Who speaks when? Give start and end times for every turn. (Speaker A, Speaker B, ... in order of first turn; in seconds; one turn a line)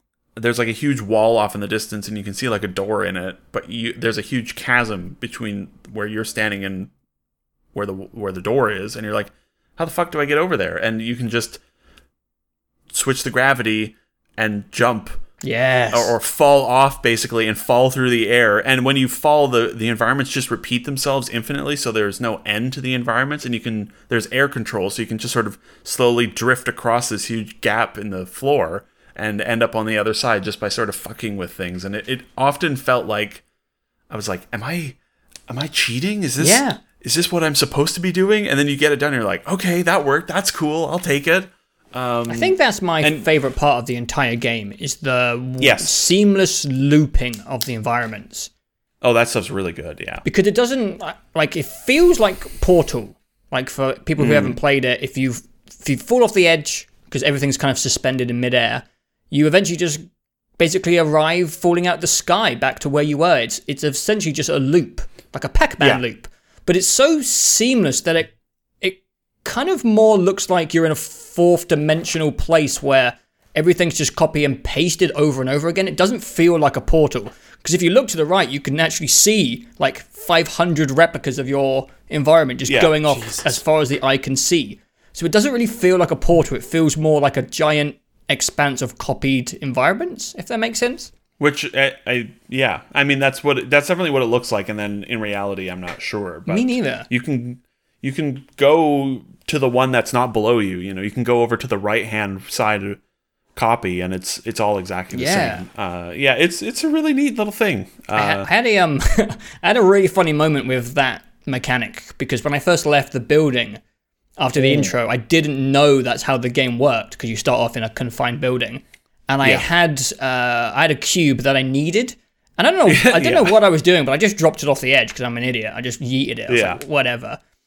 Speaker A: 0.3-6.9
Speaker A: 7.7-11.6
Speaker A: 12.9-15.2
Speaker B: 15.4-16.1
Speaker A: 15.9-33.4
Speaker A: 34.1-35.0
Speaker A: 35.5-43.3
Speaker B: 36.4-36.8
Speaker B: 42.3-48.5
Speaker A: 45.6-46.1
Speaker A: 49.0-50.2
Speaker B: 50.2-60.0
Speaker A: 54.2-54.6
Speaker B: 60.6-91.1
Speaker A: 82.7-83.6
Speaker A: 91.4-103.0
Speaker B: 96.5-97.1
Speaker A: 103.5-108.5
Speaker B: 105.1-105.6
Speaker B: 108.1-113.8
Speaker B: 114.4-127.4
Speaker A: 114.6-114.9
Speaker A: 119.4-119.7
Speaker A: 122.9-123.5
Speaker A: 126.5-126.8